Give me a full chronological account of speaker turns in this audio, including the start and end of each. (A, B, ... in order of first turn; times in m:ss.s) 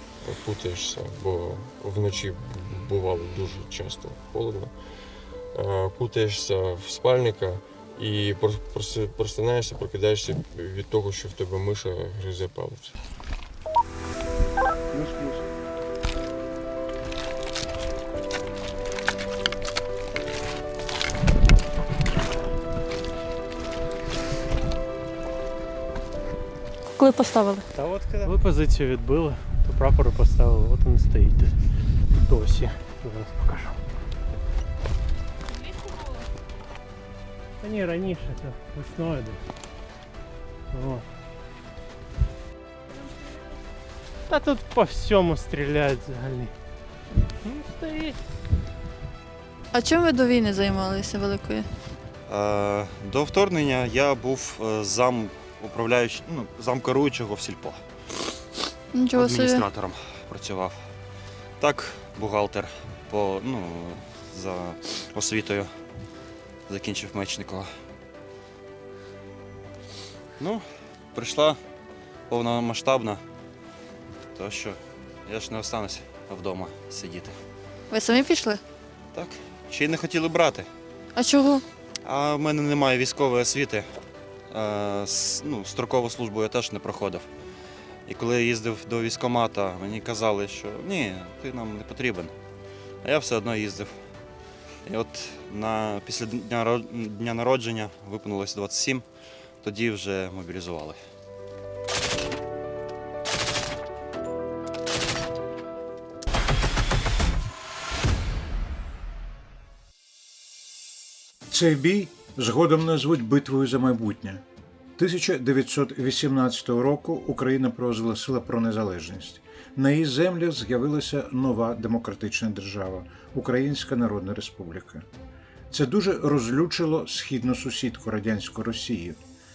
0:00.2-0:13.0 A
0:27.0-0:27.7 B
0:27.8-0:31.6 C
0:32.1-0:33.8 C
0:37.6-0:39.4 C
0:40.7-0:41.1 C
0:44.3-0:46.5 C
0:47.4-0:48.2 C
0:49.7-0:51.7 B
0:52.3-0:57.8 D
0:58.9-0:59.6 B
0:59.1-1:00.8 D
1:01.6-1:05.7 D
1:06.7-1:07.7 D
1:11.2-1:11.6 D
1:12.3-1:13.2 D
1:14.4-1:17.4 D
1:17.9-1:18.6 B
1:19.1-1:20.7 D
1:21.2-1:21.6 B
1:22.0-1:23.9 D
1:24.5-1:27.3 D
1:28.1-1:32.3 D
1:33.0-1:33.9 D
1:34.8-1:39.0 D
1:39.6-1:41.0 D
1:51.5-1:54.4 E
1:55.0-2:05.1 E
2:05.7-2:09.2 E